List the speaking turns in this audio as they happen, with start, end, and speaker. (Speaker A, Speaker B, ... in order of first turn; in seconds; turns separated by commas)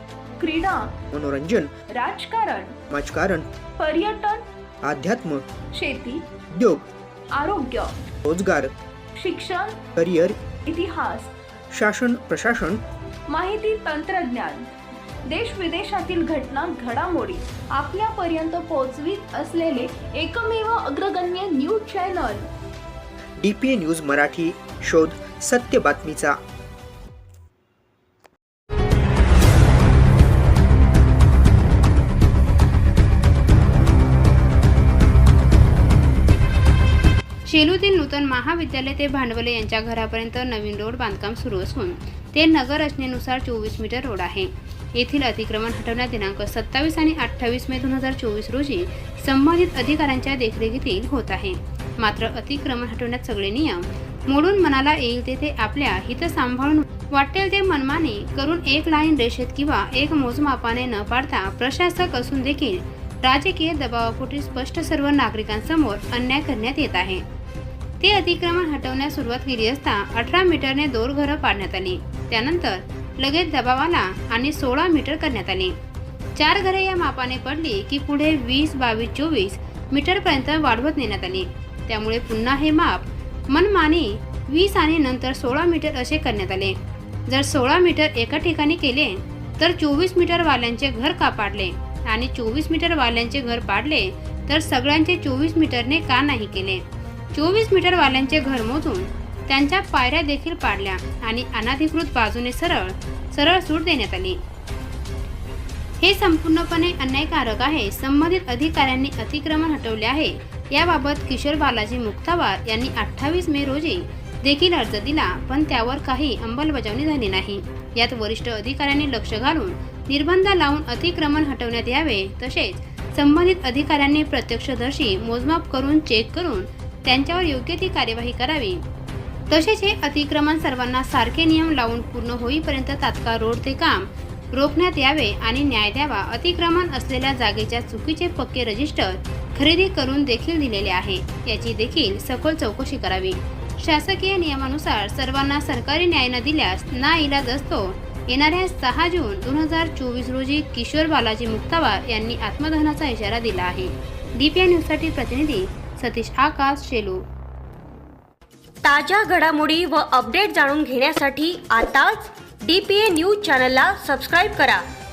Speaker A: 0.4-1.0, Speaker B: 1.1-1.7, Speaker A: 1.9-2.8, Speaker B: 2.9-3.5, Speaker A: 3.8-4.5, Speaker B: 4.8-5.5, Speaker A: 5.7-6.2, Speaker B: 6.5-6.9, Speaker A: 7.3-8.1, Speaker B: 8.2-8.8, Speaker A: 9.2-9.8, Speaker B: 9.9-10.4, Speaker A: 10.7-11.3, Speaker B: 11.7-12.8, Speaker A: 13.3-14.7, Speaker A: 15.3-22.4, Speaker B: 23.4-26.4, Speaker C: 37.5-67.2, Speaker C: 68.0-75.8, Speaker C: 76.4-104.4, Speaker C: 106.0-128.8, Speaker C: 129.5-157.3, Speaker D: 158.8-164.8